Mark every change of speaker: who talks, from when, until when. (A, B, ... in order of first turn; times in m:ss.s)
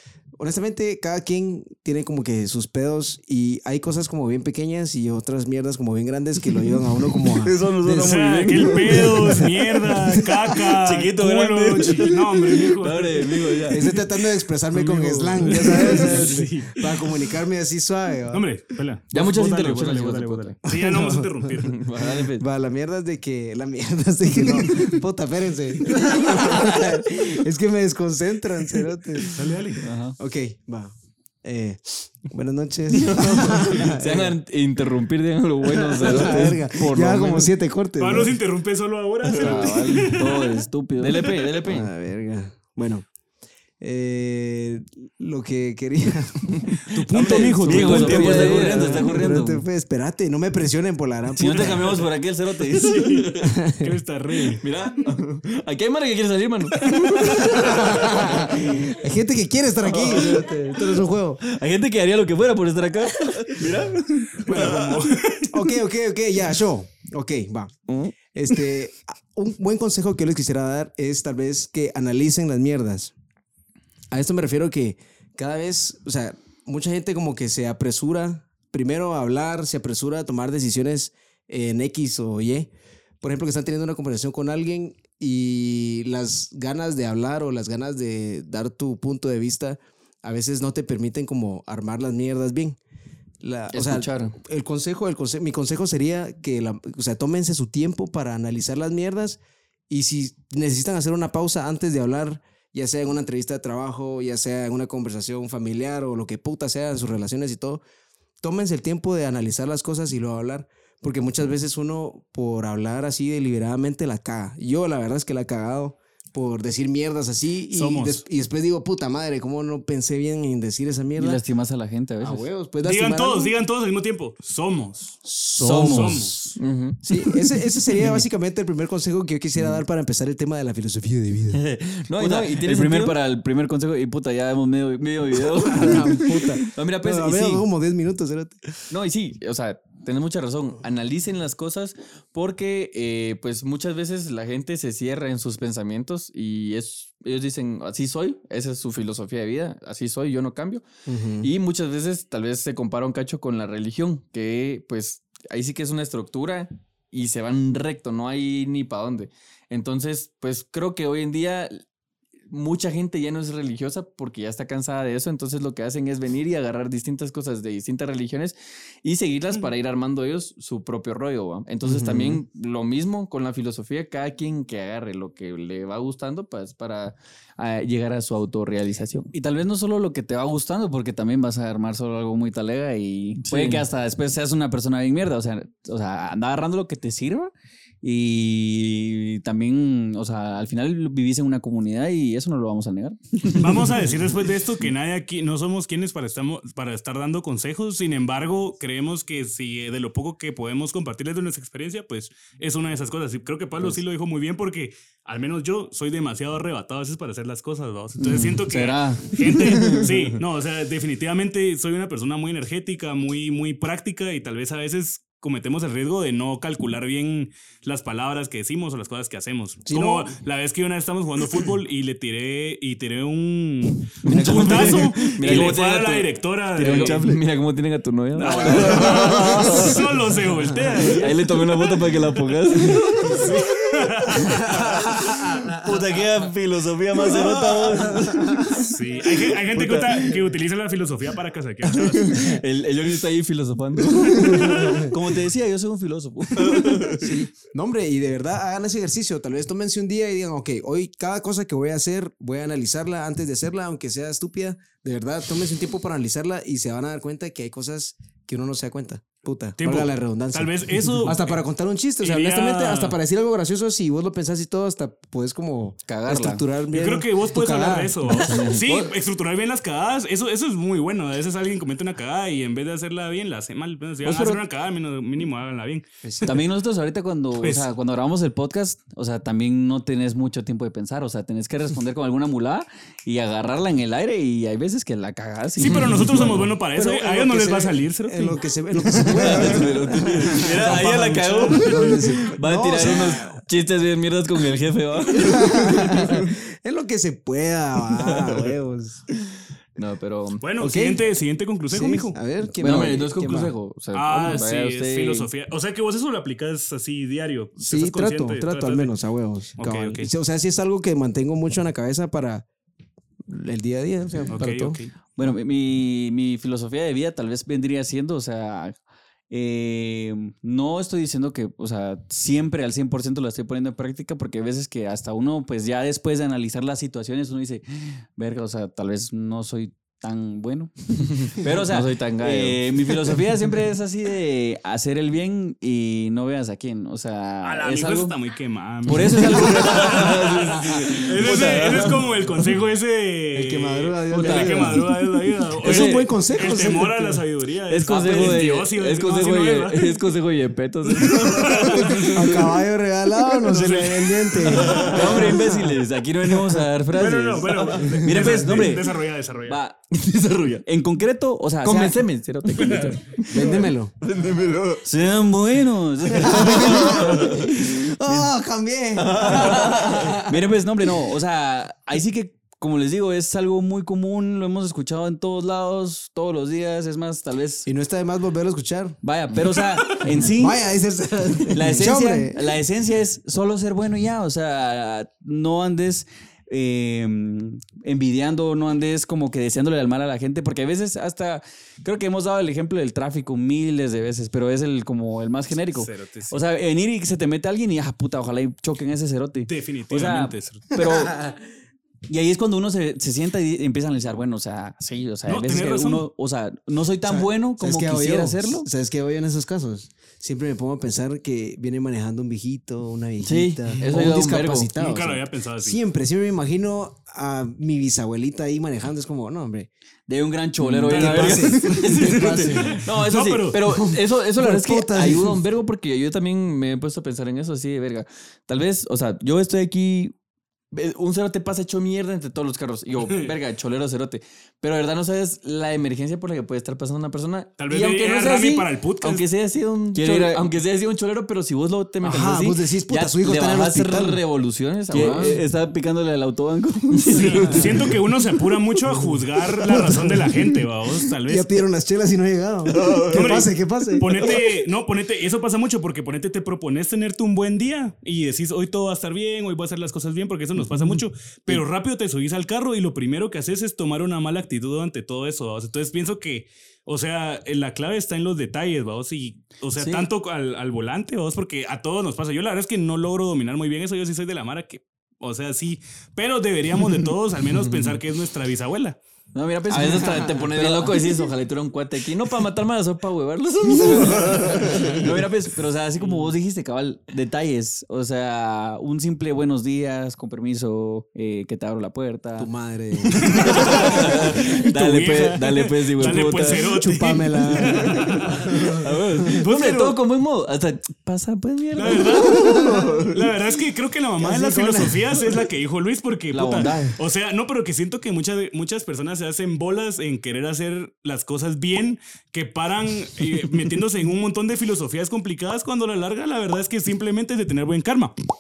0:00.4-0:10.8 A
0:07.3-0:09.4 B
0:07.9-0:13.8 C
0:10.8-0:12.3 B
0:12.7-0:13.9 D
0:13.7-0:18.4 A
0:14.7-0:17.1 C
0:18.3-0:21.8 C
0:19.1-0:20.6 D
0:20.7-0:29.4 A
0:21.6-0:22.4 D
0:29.3-0:29.8 C
0:29.8-0:30.1 B
0:30.2-0:34.4 A
0:32.9-0:37.5 D
0:35.6-0:38.4 A
0:38.0-0:40.5 C
0:39.3-0:40.4 D
0:39.4-0:41.3 B
0:41.0-0:41.9 D
0:41.6-0:43.1 A
0:43.8-0:52.0 A
0:46.6-0:49.3 D
0:46.9-0:48.7 C
0:47.5-0:49.6 B
0:51.3-0:53.3 B
0:52.7-0:54.6 C
0:53.4-0:53.9 A
0:54.5-0:58.8 D
0:56.9-0:57.5 C
0:57.4-1:01.4 A
0:59.9-1:00.6 D
1:00.0-1:00.4 B
1:01.4-1:03.8 B
1:03.2-1:05.0 D
1:04.4-1:07.7 A
1:04.5-1:05.5 C
1:08.3-1:13.1 A
1:14.1-1:22.7 A
1:23.2-1:32.8 A
1:33.4-1:47.8 A
1:33.7-1:34.3 D
1:48.4-2:01.4 A
1:57.7-1:58.2 C
2:01.2-2:02.4 B
2:02.2-2:03.5 A
2:02.8-2:05.2 C
2:05.2-2:06.4 A
2:05.6-2:06.3 B
2:05.8-2:06.6 C
2:06.6-2:07.0 D
2:07.0-2:11.6 A
2:11.5-2:13.2 D
2:12.2-2:16.1 B
2:15.3-2:17.6 D
2:15.5-2:18.6 A
2:18.9-2:30.8 D
2:31.0-2:31.5 A
2:31.4-2:41.8 D
2:42.5-2:59.3 D
2:52.0-2:52.4 A
2:59.3-3:07.5 B
3:03.4-3:03.9 D
3:08.0-3:13.8 B
3:13.5-3:47.3 C
3:28.2-3:30.0 B
3:39.8-3:40.3 A
3:44.2-3:50.0 D
3:44.3-3:45.8 B
3:46.8-3:47.3 B
3:48.3-3:52.2 C
3:48.6-3:49.9 B
3:48.8-3:49.8 A
3:51.0-3:53.5 D
3:53.2-3:55.4 C
3:54.7-3:55.3 A
3:55.7-3:58.6 B
3:57.3-3:58.2 D
3:58.0-3:58.8 A
3:58.7-4:02.6 C
4:01.9-4:05.1 D
4:04.3-4:07.2 B
4:04.4-4:05.1 A
4:06.6-4:07.3 D
4:07.2-4:28.7 A
4:19.8-4:21.6 C
4:22.2-4:23.2 C
4:26.1-4:26.6 D
4:26.9-4:36.0 C
4:28.4-4:29.1 D
4:34.2-4:34.6 B
4:36.2-4:36.6 A
4:36.4-4:46.3 B
4:37.6-4:37.9 C
4:45.8-4:48.6 C
4:46.2-4:51.1 A
4:49.1-4:56.5 D
4:50.5-4:52.3 C
4:50.5-4:51.8 B
4:51.6-4:53.6 A
4:53.0-4:53.5 C
4:55.4-4:59.2 A
4:58.3-4:58.7 D
5:00.0-5:00.6 D
5:00.6-5:02.4 C
5:00.8-5:01.2 A
5:01.9-5:03.7 A
5:02.8-5:05.5 D
5:02.8-5:03.2 B
5:04.1-5:09.1 C
5:07.8-5:12.6 A
5:09.8-5:10.3 C
5:13.4-5:15.0 A
5:14.5-5:15.1 C
5:15.4-5:19.0 B
5:19.5-5:38.4 B
5:31.4-5:33.4 D
5:37.6-5:50.3 C
5:39.1-5:42.1 B
5:39.2-5:42.2 D
5:43.5-5:45.1 A
5:44.3-5:45.0 D
5:45.8-5:47.4 A
5:45.8-5:46.2 D
5:47.9-5:48.8 B
5:47.9-5:52.7 D
5:51.1-5:52.5 C
5:52.0-5:55.6 A
5:53.6-5:55.5 C
5:54.8-5:56.0 D
5:55.0-5:59.1 B
5:57.1-5:59.8 C
5:57.7-5:58.9 D
5:59.7-6:00.1 B
6:00.1-6:00.8 D
6:00.8-6:02.3 B
6:01.8-6:05.0 D
6:02.8-6:03.0 B
6:03.4-6:04.1 A
6:05.0-6:07.2 B
6:06.3-6:10.6 A
6:06.7-6:07.8 D
6:09.3-6:10.4 D
6:10.3-6:17.9 B
6:17.8-6:19.2 A
6:19.2-6:20.8 B
6:20.3-6:22.7 A
6:21.7-6:41.5 B
6:35.9-6:36.6 C
6:39.7-6:40.8 C
6:42.3-6:48.9 B
6:45.5-6:46.3 C
6:47.2-6:59.9 A
6:53.4-6:54.9 D
6:55.0-6:56.0 C
7:00.3-7:02.0 B
7:00.8-7:10.3 D
7:01.1-7:04.0 C
7:01.2-7:03.0 A
7:03.8-7:05.6 A
7:10.9-7:22.8 D
7:17.8-7:19.5 C
7:20.1-7:20.7 B
7:22.2-7:24.4 A
7:23.1-7:24.1 B
7:23.5-7:25.6 D
7:25.1-7:28.0 B
7:25.1-7:25.6 A
7:27.1-7:27.9 D
7:27.3-7:31.7 C
7:29.8-7:30.6 A
7:31.4-7:34.6 A
7:32.9-7:33.3 D
7:33.3-7:59.2 C
7:50.0-7:50.2 B
7:57.9-7:58.2 D
7:59.5-8:01.5 B
7:59.9-8:05.5 D
8:04.2-8:12.7 B
8:12.6-8:14.0 A
8:13.3-8:18.9 C
8:13.5-8:16.9 D
8:13.5-8:14.3 B
8:14.9-8:15.3 B
8:16.0-8:16.4 B
8:16.7-8:19.4 A
8:18.1-8:18.3 D
8:18.9-8:23.4 D
8:19.5-8:20.2 C
8:21.9-8:22.2 B
8:22.0-8:38.3 C
8:22.5-8:23.2 A
8:24.4-8:25.5 A
8:26.5-8:27.2 B